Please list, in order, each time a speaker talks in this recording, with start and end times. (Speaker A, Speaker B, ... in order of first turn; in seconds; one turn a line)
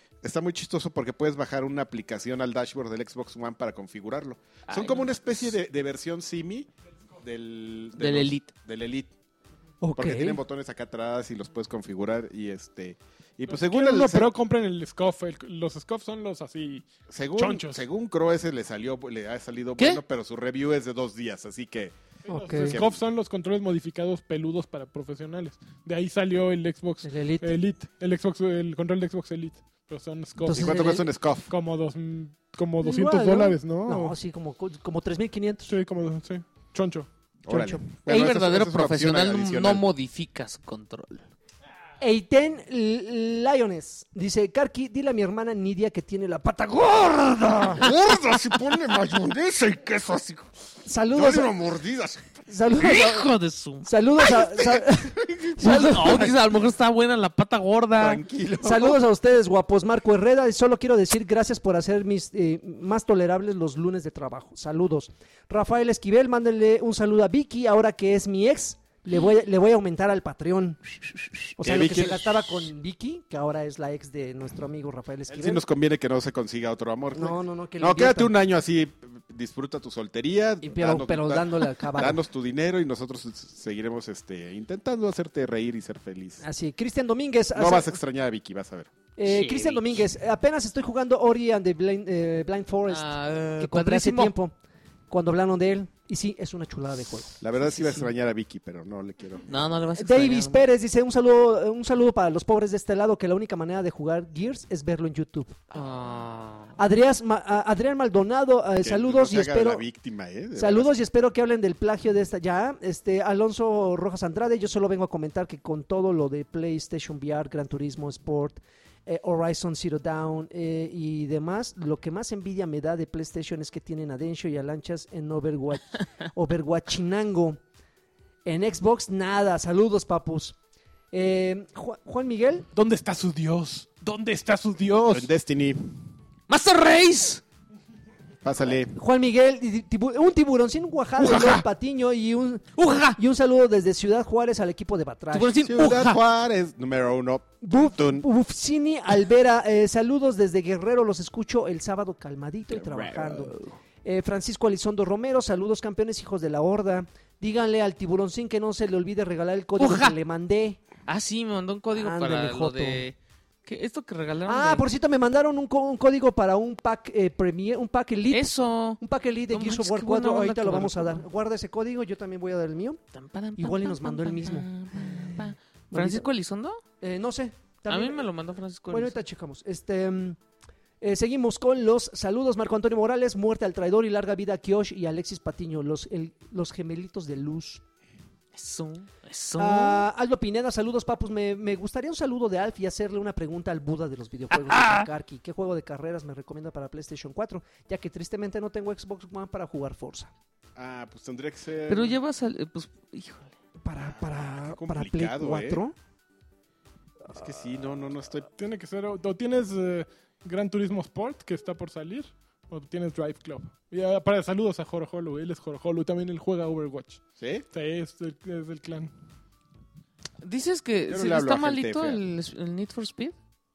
Speaker A: 0.2-6.7
Speaker B: 4.7-5.5
Speaker A: 7.2-9.1
Speaker B: 8.0-8.5
Speaker C: 9.8-10.4
Speaker A: 10.0-14.3
Speaker D: 13.5-17.8
Speaker A: 17.1-21.9
Speaker D: 22.2-30.9
Speaker C: 22.3-22.8
Speaker A: 22.6-23.0
Speaker C: 27.0-27.5
Speaker C: 30.4-31.0
Speaker A: 30.5-31.5
Speaker D: 31.5-34.1
Speaker C: 32.8-35.7
Speaker D: 35.7-37.1
Speaker A: 37.4-39.8
Speaker C: 37.5-37.8
Speaker B: 38.0-41.2
Speaker C: 42.0-47.9
Speaker A: 47.7-50.5
Speaker C: 50.8-51.5
Speaker A: 51.1-52.4
Speaker C: 52.5-53.3
Speaker B: 52.8-54.2
Speaker C: 53.8-56.3
Speaker A: 55.2-56.3
Speaker B: 55.6-58.2
Speaker A: 58.0-59.0
Speaker C: 58.6-70.8
Speaker C: 71.5-75.6
Speaker A: 71.6-72.3
Speaker A: 75.3-86.4
Speaker C: 77.1-78.3
Speaker C: 80.6-82.2
Speaker C: 86.4-88.0
Speaker A: 87.5-88.9
Speaker C: 89.2-94.5
Speaker B: 89.2-89.9
Speaker B: 92.9-94.3
Speaker C: 95.1-97.4
Speaker A: 97.4-99.4
Speaker B: 97.7-98.0
Speaker B: 99.5-100.6
Speaker C: 100.0-105.6
Speaker B: 105.7-106.7
Speaker C: 106.8-109.8
Speaker A: 108.8-110.9
Speaker C: 110.5-127.6
Speaker C: 128.4-130.6
Speaker C: 131.1-132.7
Speaker D: 132.7-135.3
Speaker A: 135.1-135.9
Speaker B: 136.5-137.4
Speaker A: 138.4-138.9
Speaker C: 138.9-145.6
Speaker B: 141.2-141.6
Speaker B: 142.8-143.2
Speaker B: 145.3-146.2
Speaker A: 145.6-148.3
Speaker C: 147.6-160.8
Speaker B: 152.7-153.8
Speaker B: 159.8-160.1
Speaker B: 161.1-164.8
Speaker C: 161.9-163.0
Speaker C: 164.4-173.0
Speaker B: 168.3-169.0
Speaker B: 169.5-171.2
Speaker B: 173.1-176.8
Speaker C: 173.6-176.3
Speaker C: 177.0-178.2
Speaker B: 177.9-179.2
Speaker C: 178.9-180.4
Speaker C: 181.0-187.8
Speaker B: 188.5-190.1
Speaker C: 189.6-200.3
Speaker B: 194.5-195.1
Speaker A: 200.8-202.2
Speaker B: 201.9-203.5
Speaker C: 203.8-205.9
Speaker A: 204.3-205.8
Speaker A: 207.3-208.5
Speaker D: 208.6-217.2
Speaker A: 217.4-217.7
Speaker D: 217.7-219.1
Speaker B: 220.4-223.3
Speaker A: 221.1-222.2